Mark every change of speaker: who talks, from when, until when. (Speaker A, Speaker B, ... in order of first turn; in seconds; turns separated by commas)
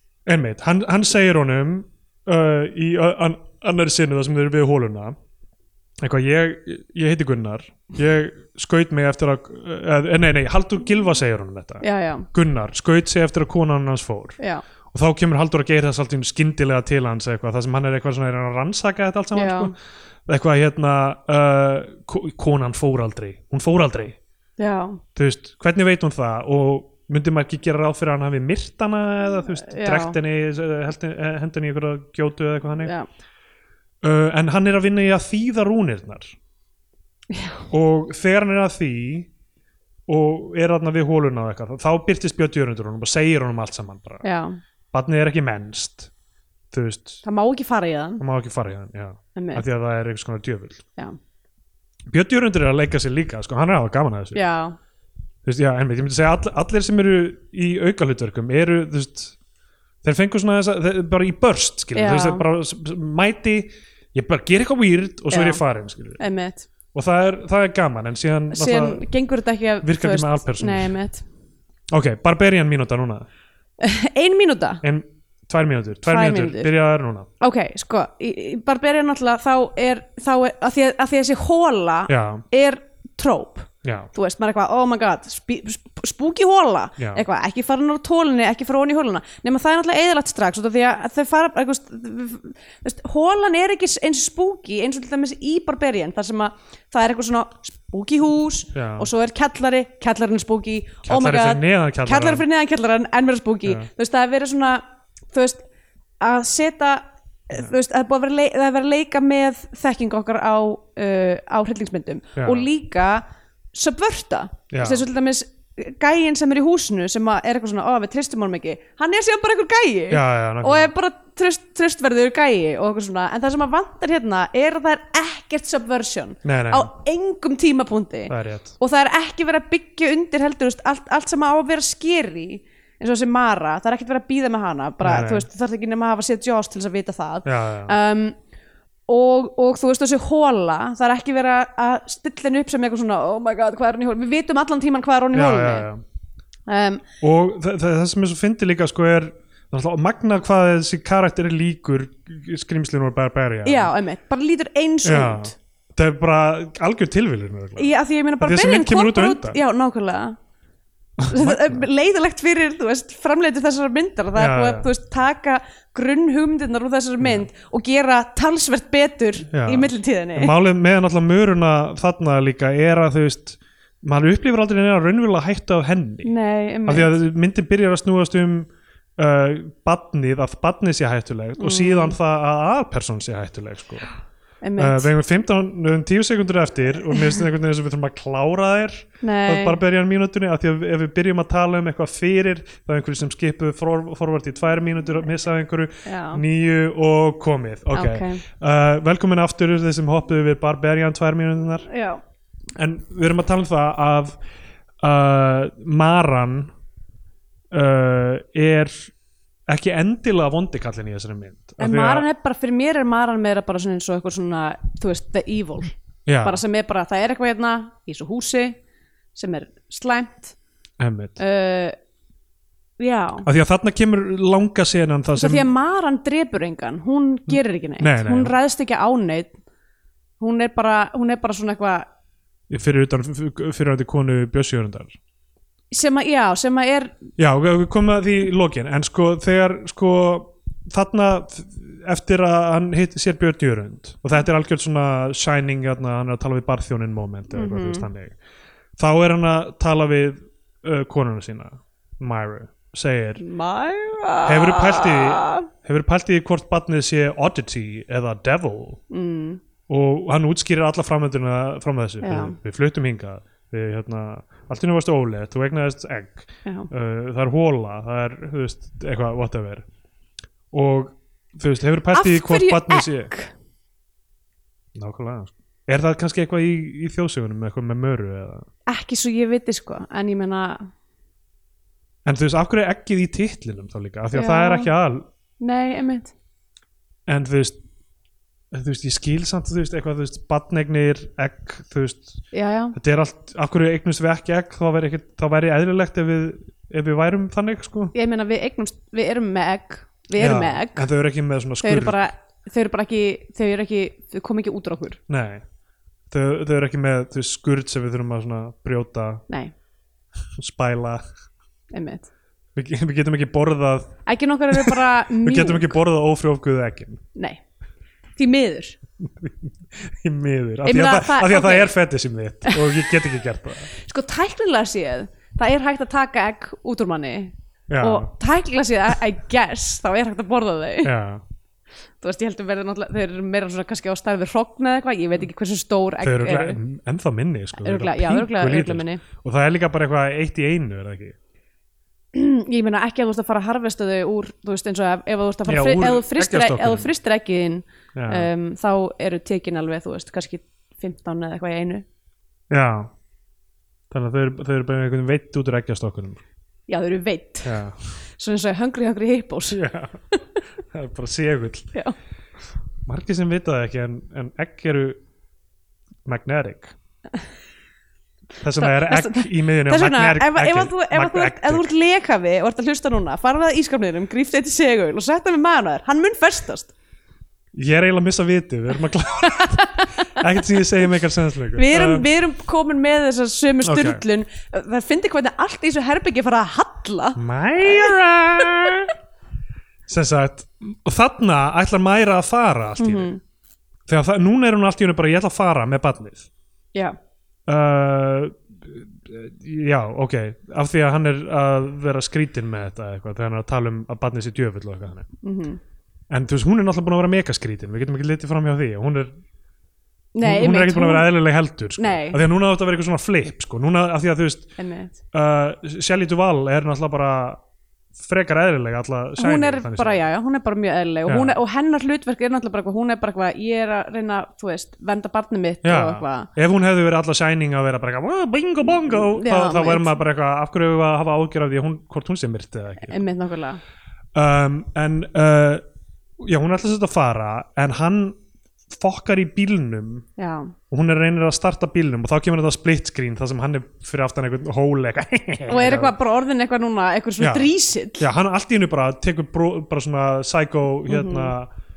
Speaker A: 0.2-5.1, Speaker A: 6.0-14.4, Speaker B: 11.8-12.3, Speaker B: 14.4-14.6, Speaker A: 14.9-19.8, Speaker B: 19.3-19.7, Speaker A: 20.3-24.2, Speaker B: 24.6-25.0, Speaker A: 25.1-32.9, Speaker B: 29.6-30.1, Speaker A: 34.0-36.3, Speaker B: 37.3-37.6, Speaker A: 37.7-39.3, Speaker A: 40.1-44.2, Speaker B: 44.2-44.6, Speaker A: 44.9-46.1, Speaker A: 46.7-47.2, Speaker B: 47.2-48.2, Speaker A: 48.2-50.8, Speaker B: 49.3-49.6, Speaker A: 52.1-54.4, Speaker B: 54.3-54.8, Speaker A: 55.4-59.4, Speaker A: 60.0-66.2, Speaker B: 61.9-62.4, Speaker B: 65.3-65.6, Speaker B: 66.2-66.7, Speaker A: 66.9-69.0, Speaker B: 68.5-71.2, Speaker A: 69.8-70.9, Speaker A: 71.9-73.2, Speaker B: 73.8-74.8, Speaker A: 74.8-77.3, Speaker B: 76.0-76.7, Speaker B: 77.4-105.6, Speaker A: 82.1-82.4, Speaker A: 83.8-84.1, Speaker A: 87.0-87.2, Speaker A: 98.7-99.1, Speaker A: 101.0-102.4, Speaker B: 106.2-138.4, Speaker A: 112.4-112.7, Speaker A: 114.7-115.0, Speaker A: 120.1-120.9, Speaker A: 126.4-126.9, Speaker A: 128.3-128.7, Speaker A: 135.0-135.4, Speaker A: 137.4-137.9, Speaker B: 139.1-145.9, Speaker A: 145.3-146.0, Speaker B: 146.7-147.0, Speaker A: 147.2-153.9, Speaker B: 153.6-155.5, Speaker A: 155.0-159.6, Speaker B: 157.8-160.3, Speaker A: 161.2-161.9, Speaker B: 161.3-170.5, Speaker A: 164.3-164.9, Speaker A: 169.5-176.3, Speaker B: 176.2-177.1, Speaker A: 176.9-184.1, Speaker B: 181.6-182.2, Speaker B: 184.6-185.1, Speaker A: 184.8-201.9, Speaker B: 189.2-189.8, Speaker B: 196.1-196.4, Speaker B: 197.9-198.4, Speaker B: 201.9-202.2, Speaker A: 202.7-204.3, Speaker A: 205.0-206.7, Speaker A: 207.7-209.1, Speaker A: 209.7-212.3, Speaker B: 211.8-218.8, Speaker A: 216.2-216.6, Speaker B: 219.3-220.6, Speaker A: 221.0-221.4, Speaker B: 221.4-221.9, Speaker B: 223.0-223.5, Speaker A: 223.4-225.7, Speaker B: 225.3-229.5, Speaker A: 227.5-228.5, Speaker B: 230.4-232.1, Speaker A: 232.7-235.2, Speaker B: 235.9-237.2, Speaker A: 237.4-248.3, Speaker B: 247.5-248.1, Speaker A: 249.0-253.4, Speaker B: 253.4-255.7, Speaker A: 254.4-259.0, Speaker B: 259.1-259.6, Speaker A: 259.9-269.9, Speaker B: 262.2-262.6, Speaker A: 270.7-273.3, Speaker B: 272.1-273.5, Speaker A: 274.9-278.7, Speaker B: 278.9-280.9, Speaker A: 282.2-285.3, Speaker B: 284.3-284.9, Speaker B: 285.6-286.3, Speaker A: 287.3-287.8, Speaker A: 288.7-292.4, Speaker B: 292.5-292.9, Speaker A: 292.9-298.1, Speaker B: 298.1-301.1, Speaker A: 300.4-302.2, Speaker B: 301.8-305.2, Speaker A: 305.3-305.6, Speaker A: 306.3-309.4, Speaker A: 310.6-311.2, Speaker B: 311.9-312.3, Speaker A: 312.7-314.2, Speaker B: 314.2-316.0, Speaker A: 314.7-317.2, Speaker B: 317.4-317.6, Speaker B: 318.4-319.0, Speaker A: 319.2-323.9, Speaker B: 320.8-321.9, Speaker B: 322.6-323.1, Speaker B: 323.9-331.1, Speaker A: 327.9-328.3, Speaker A: 331.0-331.4, Speaker B: 332.2-336.8, Speaker A: 336.2-341.4, Speaker B: 337.8-339.2, Speaker B: 342.3-352.0, Speaker A: 345.7-347.1, Speaker A: 348.1-348.5, Speaker A: 352.7-353.1, Speaker A: 354.1-356.4, Speaker B: 356.9-357.8, Speaker A: 357.6-358.1, Speaker B: 358.4-360.4, Speaker A: 359.7-360.2, Speaker A: 360.9-361.9, Speaker A: 363.1-365.2, Speaker A: 366.2-366.9, Speaker A: 368.6-371.9, Speaker B: 368.8-376.9, Speaker A: 377.7-382.3, Speaker B: 379.6-380.4, Speaker B: 381.8-388.1, Speaker A: 383.8-384.2, Speaker A: 387.4-389.1, Speaker A: 390.1-393.3, Speaker B: 393.0-393.4, Speaker A: 394.1-396.5, Speaker A: 397.7-405.3, Speaker B: 405.4-405.8, Speaker A: 406.3-409.4, Speaker B: 410.3-411.3, Speaker A: 410.4-414.7, Speaker B: 412.0-412.4, Speaker B: 414.8-415.2, Speaker A: 415.3-417.6, Speaker A: 418.2-420.2, Speaker B: 419.4-426.5, Speaker A: 421.3-421.6, Speaker A: 425.8-433.2, Speaker B: 429.1-430.1, Speaker B: 433.0-433.8, Speaker A: 434.3-435.8, Speaker A: 436.4-438.4, Speaker A: 438.9-440.3, Speaker B: 440.4-440.7, Speaker A: 440.9-446.1, Speaker B: 445.7-448.2, Speaker A: 447.4-451.7, Speaker B: 451.1-451.5